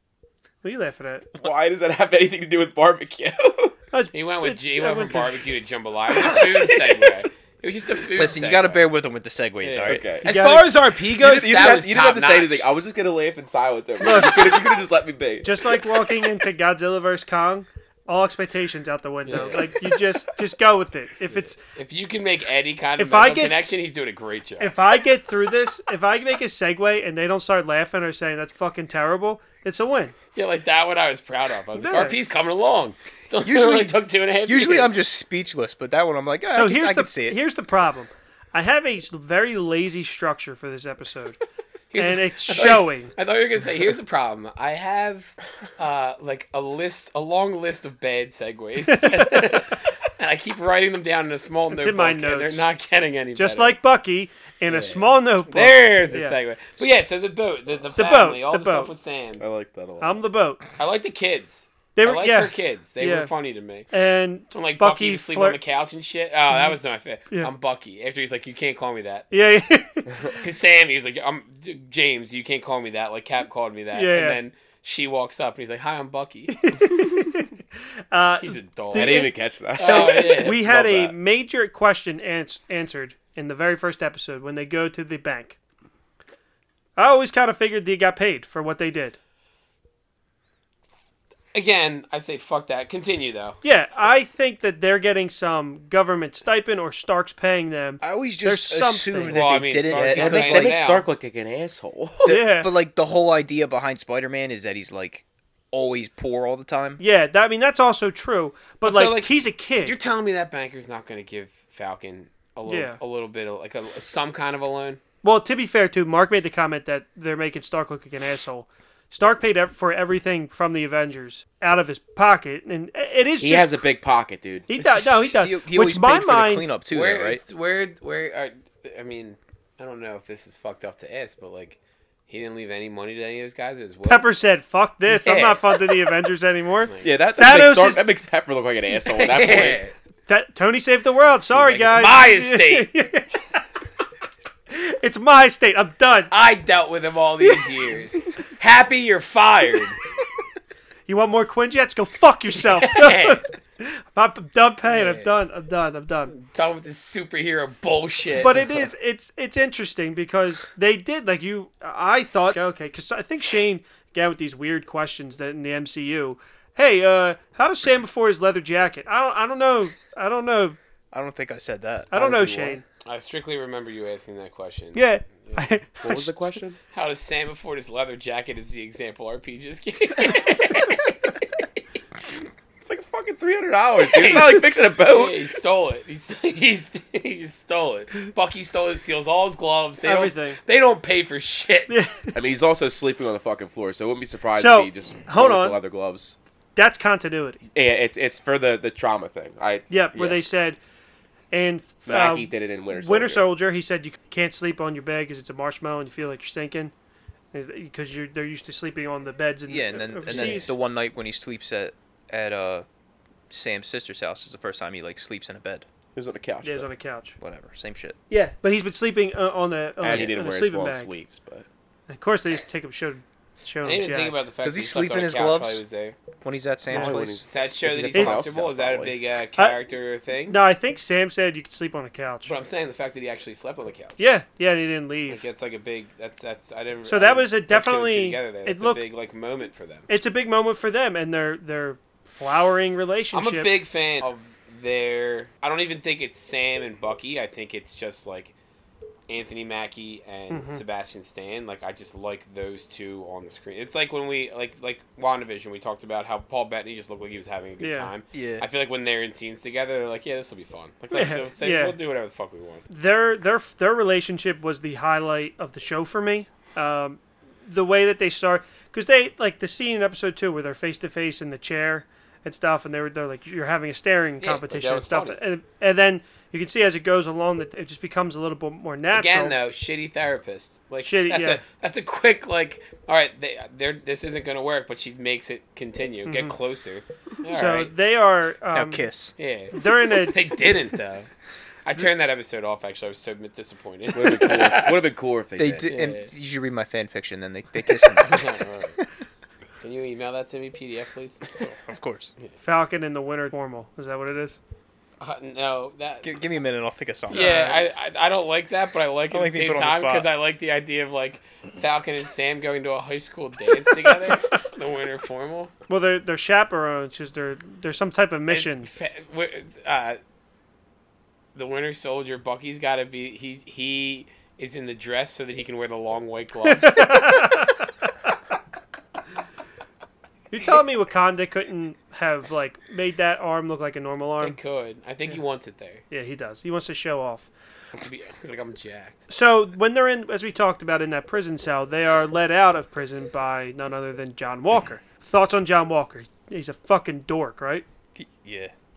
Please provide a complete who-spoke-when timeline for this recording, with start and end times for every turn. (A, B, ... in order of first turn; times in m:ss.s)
0:00.6-0:01.3 A
0:01.3-0:03.7 B
0:03.9-0:05.4 A
0:04.1-0:08.8 C
0:08.1-0:10.4 D
0:09.6-0:12.6 C
0:09.8-0:10.3 B
0:10.2-0:10.7 A
0:10.9-0:16.1 B
0:14.0-0:14.6 A
0:15.4-0:21.6 A
0:19.3-0:19.7 C
0:19.3-0:19.6 B
0:21.3-0:24.8 C
0:23.0-0:23.6 A
0:24.6-0:30.1 A
0:30.3-0:34.9 C
0:31.8-0:32.2 A
0:33.4-0:37.4 D
0:36.5-0:41.4 A
0:41.9-0:53.8 C
0:42.0-0:43.1 A
0:48.9-0:49.3 A
0:51.7-0:52.7 A
0:53.4-0:56.4 A
0:54.7-0:59.4 C
0:58.0-0:58.9 A
0:59.4-1:00.2 B
1:00.0-1:00.6 A
1:00.8-1:03.9 C
1:02.0-1:03.3 A
1:03.9-1:05.6 A
1:04.5-1:09.3 C
1:09.3-1:10.4 A
1:10.4-1:16.8 C
1:13.9-1:14.4 A
1:16.6-1:17.5 A
1:18.1-1:25.6 A
1:18.4-1:20.6 C
1:18.9-1:21.2 B
1:27.0-1:29.2 A
1:31.5-1:33.6 C
1:33.6-1:39.4 A
1:38.0-1:40.8 D
1:39.3-1:41.1 C
1:39.7-1:42.4 B
1:42.2-1:47.0 D
1:42.2-1:42.7 A
1:47.0-1:50.0 A
1:48.8-1:55.0 C
1:52.7-1:53.0 A
1:55.2-2:03.8 A
2:03.4-2:04.7 B
2:04.7-2:06.7 A
2:05.3-2:07.4 D
2:06.9-2:14.3 C
2:14.0-2:18.1 A
2:15.1-2:15.8 C
2:16.8-2:17.1 C
2:17.0-2:19.8 B
2:19.1-2:19.9 C
2:20.3-2:23.6 A
2:21.5-2:22.1 B
2:21.8-2:22.9 C
2:24.7-2:26.3 A
2:26.3-2:30.0 C
2:31.1-2:36.3 A
2:32.8-2:33.4 C
2:34.8-2:35.4 C
2:36.3-2:38.9 C
2:38.3-2:50.8 A
2:51.1-2:52.8 D
2:52.1-2:52.8 A
2:53.0-2:55.7 C
2:54.9-2:56.6 A
2:56.0-2:56.8 B
2:56.9-3:01.2 C
3:02.8-3:05.4 B
3:04.0-3:11.9 C
3:10.0-3:10.6 A
3:11.9-3:12.4 A
3:12.3-3:16.4 B
3:14.6-3:15.8 A
3:16.8-3:17.6 A
3:17.7-3:20.4 B
3:19.9-3:20.8 A
3:21.5-3:26.9 A
3:22.0-3:23.5 B
3:27.5-3:30.7 A
3:29.7-3:32.9 D
3:30.3-3:30.7 B
3:33.5-3:35.9 D
3:36.1-3:36.9 B
3:36.6-3:37.4 A
3:37.4-3:38.2 D
3:38.3-3:41.1 A
3:40.0-3:41.7 B
3:42.1-3:44.4 A
3:43.8-3:46.2 C
3:44.6-3:45.8 D
3:46.4-3:47.4 D
3:46.9-3:49.2 B
3:47.4-3:50.6 C
3:48.1-3:48.4 A
3:50.5-3:52.5 A
3:52.4-3:54.2 C
3:54.2-3:55.4 A
3:55.3-4:00.1 C
3:57.0-3:59.0 A
4:00.1-4:03.7 A
4:03.3-4:08.5 C
4:09.3-4:22.9 C
4:10.5-4:10.8 A
4:17.8-4:18.1 A
4:18.3-4:18.6 D
4:21.1-4:22.0 A
4:22.9-4:39.6 A
4:34.4-4:35.4 C
4:39.1-4:47.9 C
4:41.0-4:41.6 A
4:46.2-4:46.6 A
4:47.5-4:49.0 A
4:48.7-4:49.3 D
4:49.4-4:51.3 C
4:49.7-4:50.4 A
4:51.8-4:55.0 C
4:54.1-4:55.9 B
4:55.6-4:58.6 D
4:55.9-4:56.3 C
4:58.2-4:59.0 C
4:59.8-5:01.7 C
5:01.6-5:02.3 D
5:02.6-5:04.6 A
5:05.2-5:06.4 C
5:06.2-5:07.8 D
5:07.3-5:15.7 C
5:07.3-5:07.8 A
5:09.3-5:10.3 D
5:14.1-5:14.4 A
5:15.9-5:18.9 A
5:18.5-5:20.2 C
5:21.5-5:27.4 C
5:26.6-5:27.8 A
5:30.5-5:34.6 A
5:34.4-5:36.0 C
5:36.1-5:37.5 A
5:37.9-5:39.2 C
5:39.3-5:47.8 A
5:48.2-5:48.7 D